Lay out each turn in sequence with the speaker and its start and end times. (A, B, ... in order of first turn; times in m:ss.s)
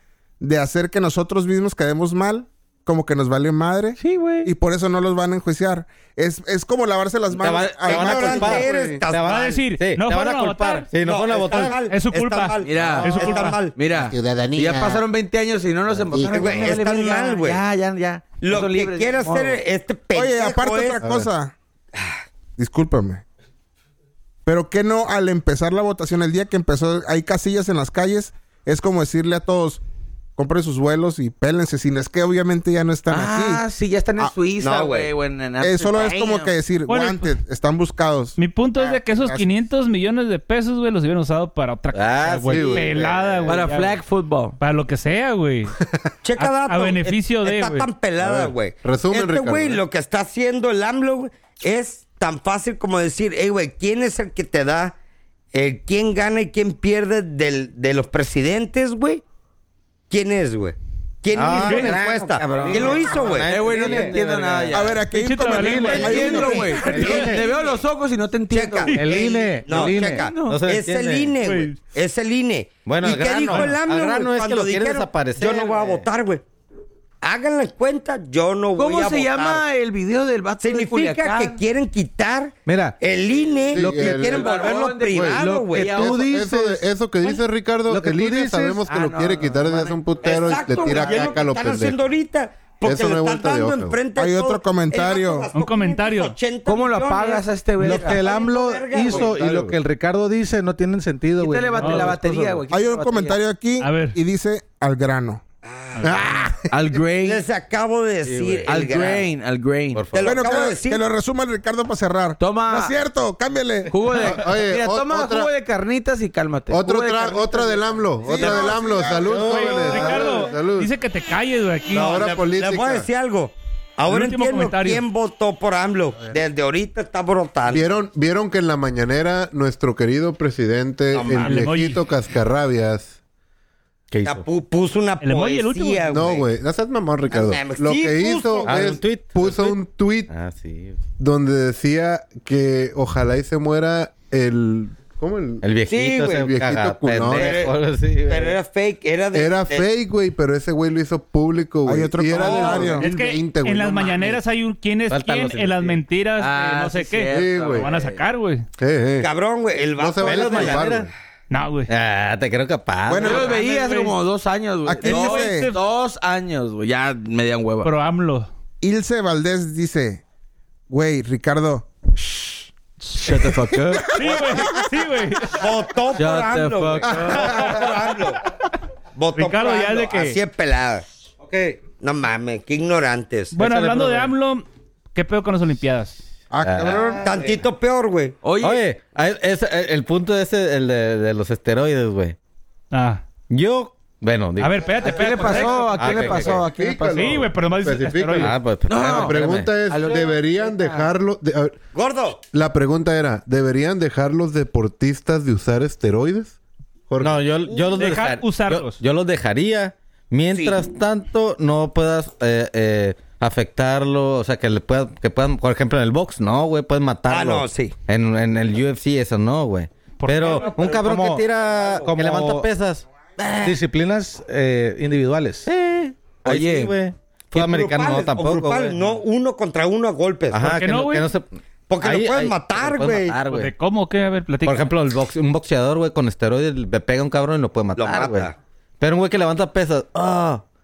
0:00.4-0:08.6 A
0:04.0-0:04.5 B
0:07.4-0:11.8 C
0:07.8-0:09.6 D
0:08.3-0:09.0 E
0:09.2-0:10.9 F
0:11.0-0:13.7 D
0:11.9-0:13.6 F
0:12.6-0:19.6 B
0:14.1-0:15.0 E
0:16.1-0:16.8 E
0:16.3-0:17.6 D
0:18.4-0:21.0 D
0:20.1-0:21.5 A
0:21.9-0:22.2 D
0:22.6-0:23.2 A
0:24.4-0:29.8 A
0:30.4-0:33.6 A
0:33.1-0:36.5 B
0:34.6-0:35.1 D
0:35.6-0:39.4 A
0:36.9-0:37.3 F
0:38.4-0:44.0 F
0:41.9-0:43.2 C
0:42.5-0:42.9 E
0:42.7-0:43.6 D
0:43.4-0:44.6 B
0:44.6-0:45.8 F
0:46.2-0:55.0 D
0:46.4-0:47.9 F
0:48.2-0:49.8 E
0:55.5-0:59.2 D
1:00.1-1:03.5 D
1:01.3-1:05.0 C
1:01.6-1:01.9 F
1:02.5-1:09.0 B
1:03.7-1:04.1 G
1:04.7-1:07.1 A
1:05.1-1:06.9 F
1:05.6-1:06.3 G
1:05.9-1:07.5 D
1:06.8-1:07.4 C
1:07.0-1:07.4 G
1:08.5-1:16.4 D
1:08.9-1:10.2 G
1:09.7-1:10.6 B
1:10.4-1:11.4 C
1:11.4-1:11.8 F
1:12.8-1:16.0 C
1:17.2-1:19.6 D
1:18.8-1:21.6 B
1:20.6-1:26.0 D
1:22.6-1:23.0 G
1:23.7-1:32.1 E
1:23.7-1:24.3 G
1:24.1-1:26.4 B
1:25.4-1:27.3 G
1:27.8-1:28.8 G
1:28.8-1:30.0 B
1:30.2-1:39.4 D
1:30.7-1:31.1 B
1:30.9-1:31.3 G
1:32.8-1:34.0 E
1:34.2-1:35.5 A
1:35.5-1:36.3 F
1:36.6-1:38.2 B
1:37.8-1:42.6 G
1:39.1-1:39.8 E
1:41.4-1:43.4 B
1:41.8-1:42.2 F
1:42.7-1:45.4 A
1:43.8-1:44.2 F
1:45.6-1:46.1 D
1:45.9-1:46.4 F
1:46.0-1:46.6 E
1:46.7-1:47.4 B
1:47.2-1:49.3 D
1:48.2-1:48.8 C
1:48.6-1:50.0 B
1:49.9-1:50.4 C
1:50.1-1:51.0 D
1:50.2-1:53.9 A
1:52.4-1:53.0 B
1:53.9-1:58.0 B
1:54.2-1:55.5 E
1:56.7-2:00.9 E
1:58.2-1:59.5 A
1:58.3-2:00.2 C
1:59.4-2:02.1 F
2:01.9-2:03.1 E
2:01.9-2:07.8 D
2:04.1-2:05.0 F
2:07.7-2:13.2 E
2:11.1-2:11.6 D
2:11.4-2:12.0 F
2:14.1-2:14.4 C
2:14.2-2:16.5 D
2:15.2-2:16.0 F
2:16.1-2:20.3 E
2:17.3-2:18.8 D
2:18.6-2:19.8 C
2:20.3-2:21.0 C
2:21.2-2:25.6 E
2:25.6-2:28.6 C
2:25.9-2:26.4 D
2:26.3-2:27.6 E
2:27.2-2:29.9 D
2:29.3-2:34.4 E
2:31.8-2:33.0 A
2:32.9-2:38.6 F
2:35.1-2:36.0 C
2:36.4-2:38.2 B
2:37.3-2:37.9 E
2:38.8-2:39.3 E
2:39.2-2:40.9 D
2:40.0-2:41.1 E
2:40.2-2:41.1 C
2:41.5-2:41.9 F
2:41.9-2:43.5 C
2:43.1-2:43.5 A
2:43.2-2:47.9 B
2:43.3-2:44.2 F
2:45.0-2:45.8 F
2:45.0-2:45.7 A
2:47.8-2:48.5 F
2:48.8-2:50.2 A
2:50.9-2:52.7 A
2:53.1-2:54.2 B
2:54.0-2:55.7 F
2:55.5-2:58.4 D
2:56.2-2:57.5 B
2:57.1-2:57.7 E
2:59.1-3:01.0 D
2:59.3-3:00.4 F
3:01.4-3:01.8 C
3:01.9-3:03.6 D
3:03.5-3:04.6 F
3:03.6-3:04.3 C
3:05.1-3:06.2 F
3:06.6-3:07.2 E
3:06.6-3:07.2 C
3:07.2-3:08.4 D
3:08.4-3:08.8 B
3:08.6-3:12.4 C
3:12.9-3:13.2 F
3:13.5-3:16.7 C
3:14.6-3:16.1 F
3:15.0-3:17.3 B
3:16.0-3:21.8 E
3:17.0-3:18.5 F
3:18.4-3:19.8 C
3:18.9-3:21.1 B
3:21.9-3:22.4 D
3:22.5-3:26.6 E
3:27.1-3:27.4 E
3:27.2-3:43.8 C
3:27.9-3:29.0 F
3:30.5-3:30.8 D
3:37.3-3:37.9 D
3:40.2-3:40.7 F
3:40.4-3:41.1 D
3:40.9-3:42.7 G
3:41.6-3:42.1 D
3:43.6-3:45.7 G
3:45.6-3:49.2 C
3:46.4-3:46.9 B
3:47.5-3:50.7 D
3:50.5-3:53.7 C
3:50.6-3:51.3 F
3:51.9-3:53.4 D
3:53.4-3:54.9 F
3:54.6-4:00.6 C
3:58.0-3:58.5 D